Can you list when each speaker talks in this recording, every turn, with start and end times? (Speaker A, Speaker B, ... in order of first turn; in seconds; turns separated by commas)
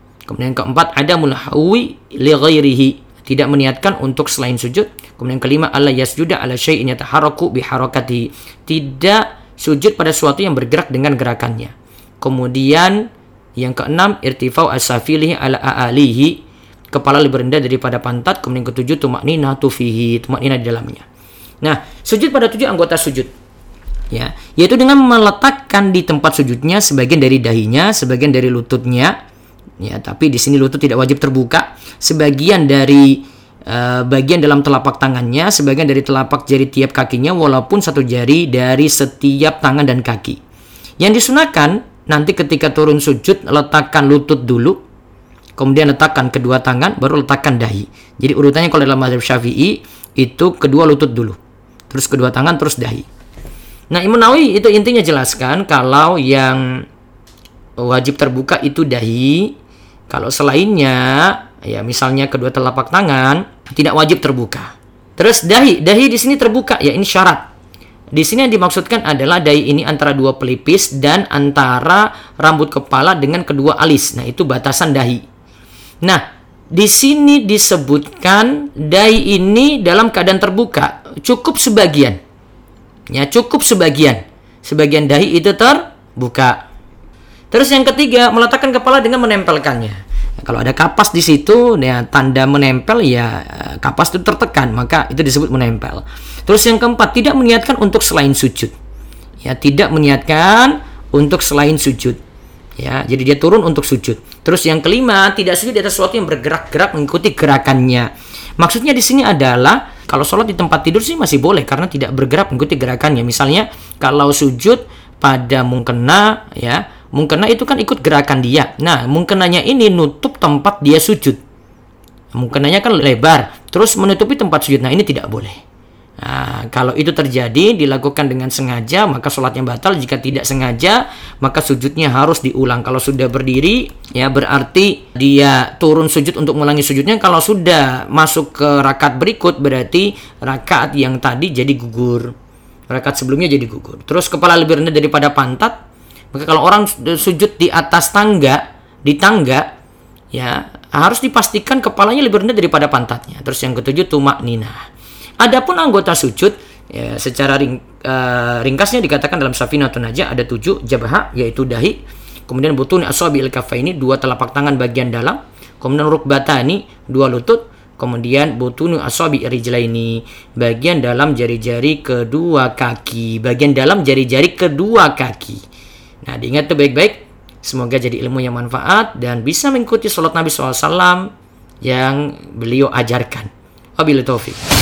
Speaker A: 0.2-13.0, Speaker A: 13.6-16.4, Speaker A: 16.9-21.0, Speaker A: 21.6-23.3, Speaker A: 24.1-29.1, Speaker A: 29.8-40.4, Speaker A: 41.0-44.8, Speaker A: 45.6-51.4, Speaker A: 51.9-53.0, Speaker A: 53.9-56.8, Speaker A: 57.8-59.5, Speaker A: 60.1-67.5, Speaker A: 68.1-75.2, Speaker A: 76.7-82.2, Speaker A: 83.1-86.6, Speaker A: 87.5-98.7, Speaker A: 99.4-102.2, Speaker A: 102.8-121.4, Speaker A: 122.3-125.6, Speaker A: 126.2-142.3, Speaker A: 142.9-145.8, Speaker A: 146.3-149.7, Speaker A: 150.3-154.8, Speaker A: 155.4-175.6, Speaker A: 176.2-181.3, Speaker A: 181.8-184.6